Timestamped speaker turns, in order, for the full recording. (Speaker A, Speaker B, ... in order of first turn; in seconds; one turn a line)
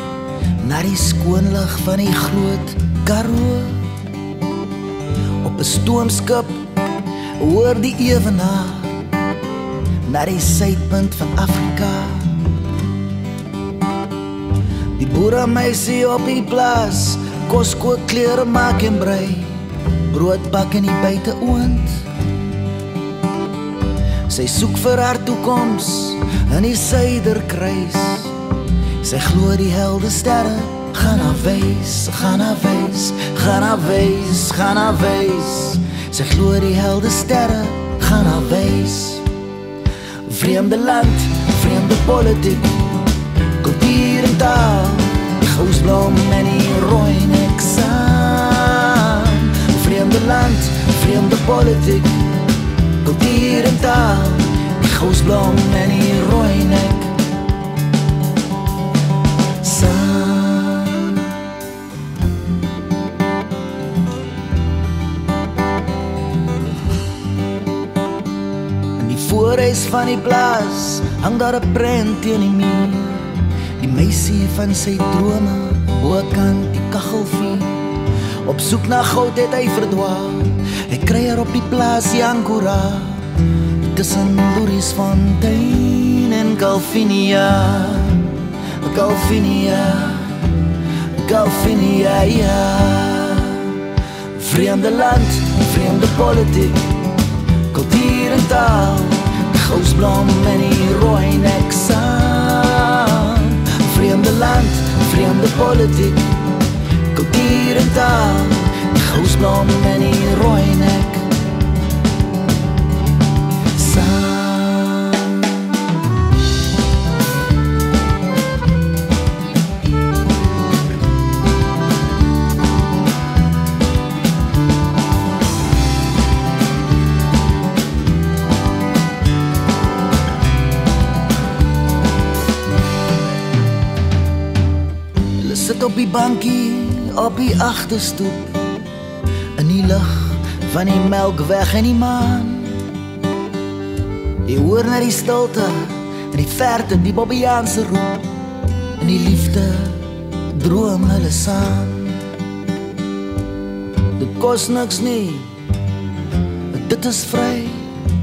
Speaker A: 0.6-3.9
Speaker A: 5.4-6.7
Speaker A: 7.3-9.0
Speaker A: 10.0-12.4
Speaker A: 14.9-22.1
Speaker A: 24.2-28.4
Speaker A: 29.0-39.3
Speaker A: 40.2-43.0
Speaker A: 43.6-52.4
Speaker A: 53.0-57.2
Speaker A: 59.6-61.4
Speaker A: 69.0-97.0
Speaker A: 97.7-111.3
Speaker A: 113.7-115.6
Speaker A: 135.4-138.8
Speaker A: 139.6-142.9
Speaker A: 144.4-148.3
Speaker A: 149.0-152.3
Speaker A: 154.2-155.6
Speaker A: 156.7-157.9